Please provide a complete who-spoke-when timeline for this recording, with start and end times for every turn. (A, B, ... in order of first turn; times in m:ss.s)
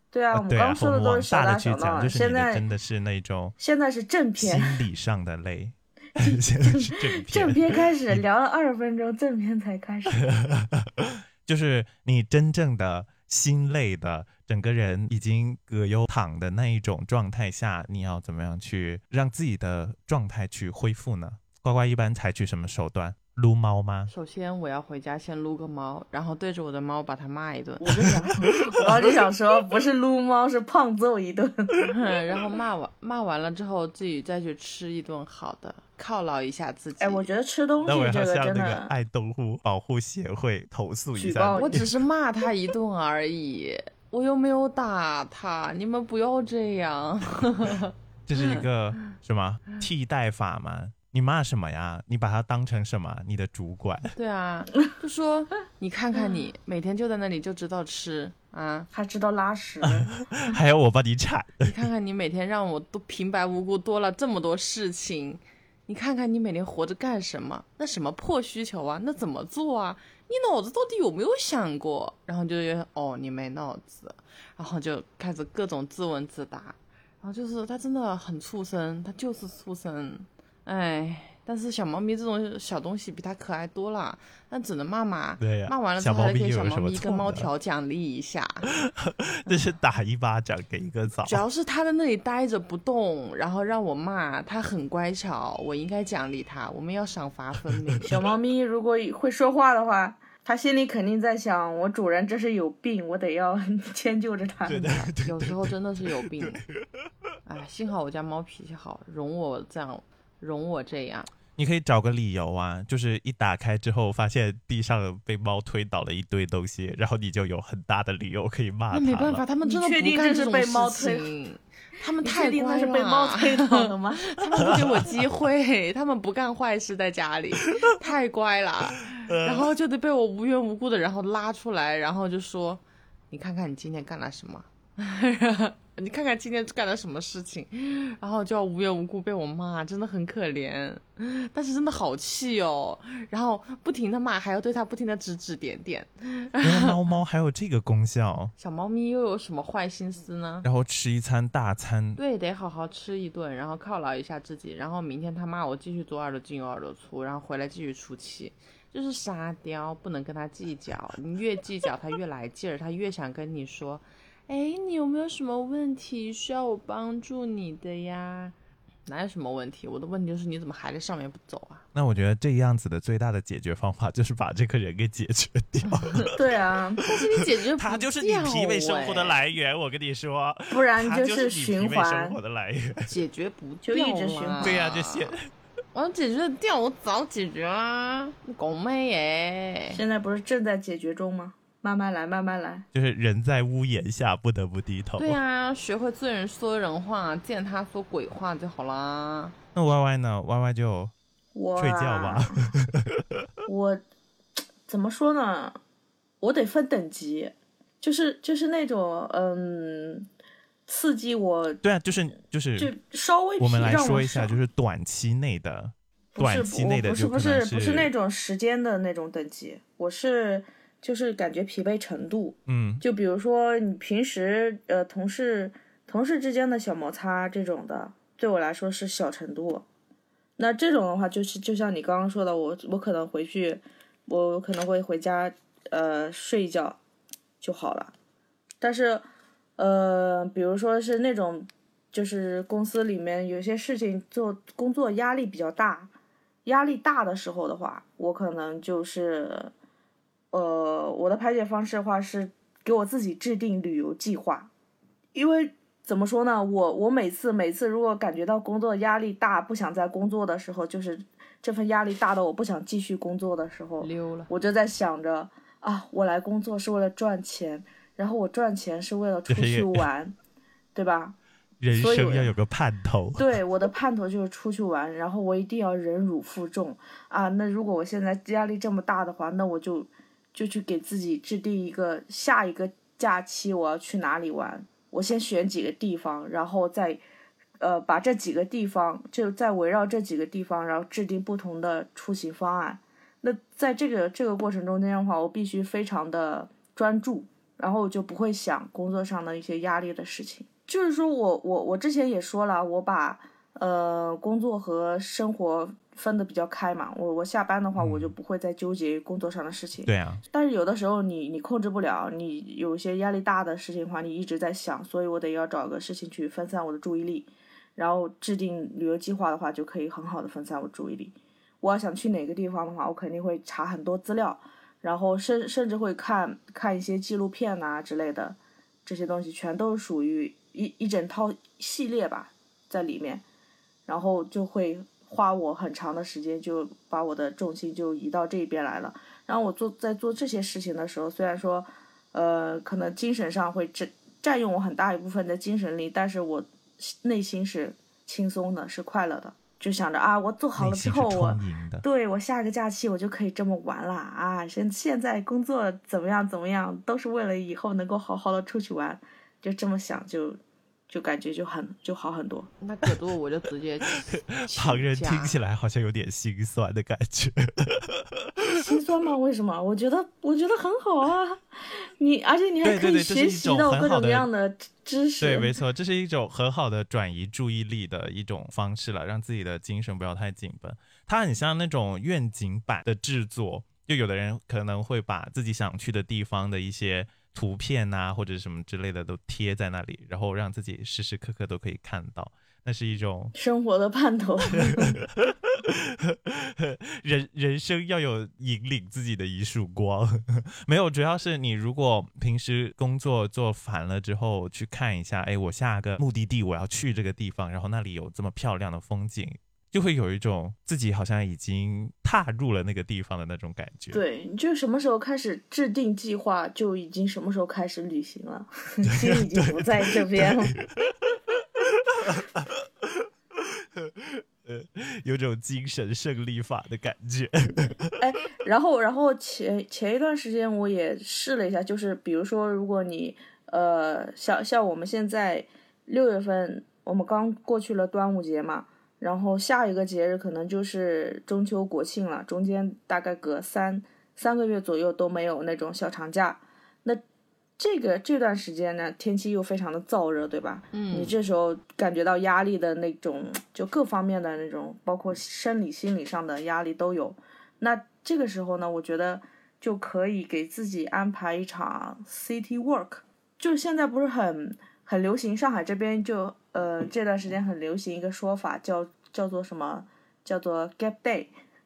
0:00.1-0:02.6 A
0:00.3-0:03.6 B
0:03.6-0:04.8 A
0:04.4-0:08.2 B
0:06.2-0:10.2 A
0:10.2-0:24.1 B
0:24.1-0:28.0 C
0:27.8-0:31.8 A
0:28.1-0:28.8 B
0:31.8-0:37.2 C
0:37.0-0:38.9 A
0:37.8-0:41.9 B
0:41.2-0:41.8 A
0:41.6-0:48.6 C
0:48.3-0:54.1 B
0:54.2-0:58.9 C
0:58.9-1:00.1 A
0:59.8-1:01.7 B
1:01.6-1:28.7 C
1:25.4-1:27.5 B
1:28.9-1:31.4 B
1:31.2-1:38.2 C
1:38.0-1:45.0 A
1:44.6-1:46.5 B
1:44.8-1:46.6 C
1:47.5-1:51.3 C
1:51.6-1:59.4 B
1:58.9-2:27.0 C
1:59.6-2:01.3 A
2:02.2-2:04.4 A
2:09.2-2:09.7 B
2:26.6-2:28.5 B
2:28.6-2:30.7 C
2:30.6-2:32.2 B
2:32.2-2:48.6 C
2:49.1-2:51.8 C
2:52.0-2:56.3 B
2:55.9-2:56.2 C
2:56.3-2:57.0 A
2:57.0-3:03.1 B
2:57.0-2:59.4 C
3:00.7-3:02.4 A
3:03.1-3:05.3 C
3:03.8-3:04.8 A
3:04.6-3:05.4 B
3:05.9-3:10.0 C
3:09.9-3:12.9 A
3:12.9-3:15.4 B
3:15.2-3:19.6 C
3:19.8-3:21.1 B
3:21.6-3:22.6 A
3:21.8-3:23.2 B
3:23.7-3:24.0 A
3:24.9-3:25.8 A
3:26.4-3:30.3 A
3:30.9-3:31.8 A
3:31.8-3:32.9 B
3:32.8-3:34.6 A
3:33.6-3:38.1 B
3:36.4-3:49.8 A
3:42.7-3:43.0 B
3:50.6-3:57.0 A
3:57.6-3:58.1 A
3:58.8-3:59.2 A
3:59.8-4:06.1 A
4:06.6-4:09.7 A
4:10.5-4:14.7 A
4:15.3-4:30.4 A
4:24.0-4:24.5 C
4:29.5-4:30.0 B
4:30.9-4:31.4 A
4:31.8-4:33.5 B
4:31.9-4:32.5 A
4:33.4-4:47.2 A
4:47.8-5:33.4 A
5:08.0-5:08.3 B
5:10.0-5:10.4 B
5:34.1-6:00.6 A
5:50.8-5:52.0 B
6:01.1-6:02.7 A
6:02.8-6:05.6 C
6:04.5-6:08.2 B
6:08.6-6:15.7 A
6:12.8-6:14.5 B
6:15.4-6:33.6 B
6:33.6-6:35.2 A
6:34.8-6:54.2 B
6:54.1-7:00.8 A
6:59.1-7:01.1 B
7:01.8-7:03.3 B
7:04.0-7:08.1 B
7:08.2-7:27.2 A
7:27.8-7:51.5 A
7:30.9-7:31.4 C